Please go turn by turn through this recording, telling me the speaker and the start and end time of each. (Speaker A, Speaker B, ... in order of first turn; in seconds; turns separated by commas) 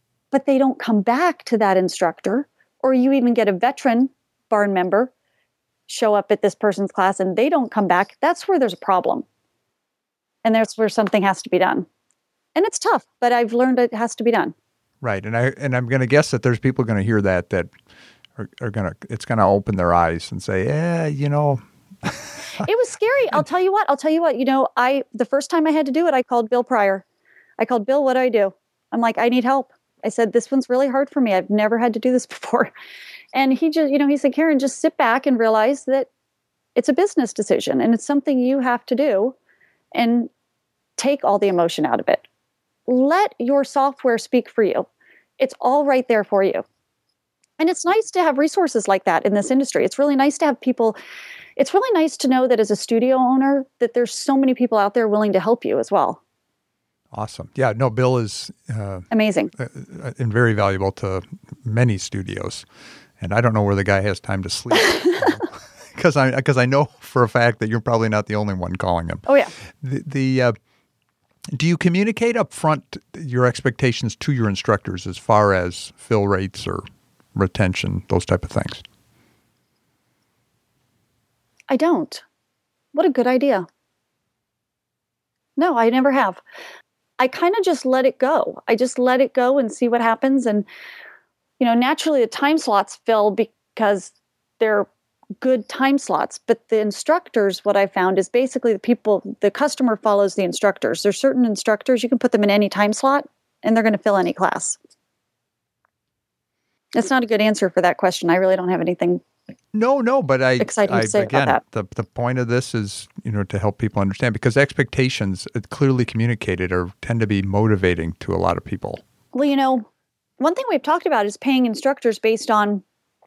Speaker A: 0.3-5.1, Speaker A: 5.9-9.2, Speaker A: 10.4-11.9, Speaker A: 12.6-14.5, Speaker B: 15.0-17.7, Speaker B: 18.4-22.7, Speaker A: 22.6-27.0, Speaker A: 27.6-32.7, Speaker A: 33.3-36.1, Speaker A: 36.8-39.3, Speaker A: 39.9-40.3, Speaker A: 41.0-42.2, Speaker A: 42.9-44.9, Speaker A: 45.4-46.6, Speaker A: 47.6-51.0, Speaker A: 51.6-56.2, Speaker B: 57.1-62.6, Speaker A: 59.1-59.5, Speaker B: 63.2-70.5, Speaker A: 69.3-69.5, Speaker B: 71.5-78.8, Speaker A: 81.7-82.2, Speaker A: 82.9-83.7, Speaker A: 85.6-86.4, Speaker A: 87.2-90.6, Speaker A: 91.6-94.9, Speaker A: 95.4-104.8, Speaker A: 106.9-109.2, Speaker B: 109.7-119.0, Speaker A: 110.6-111.6, Speaker A: 119.3-119.8, Speaker A: 120.4-122.8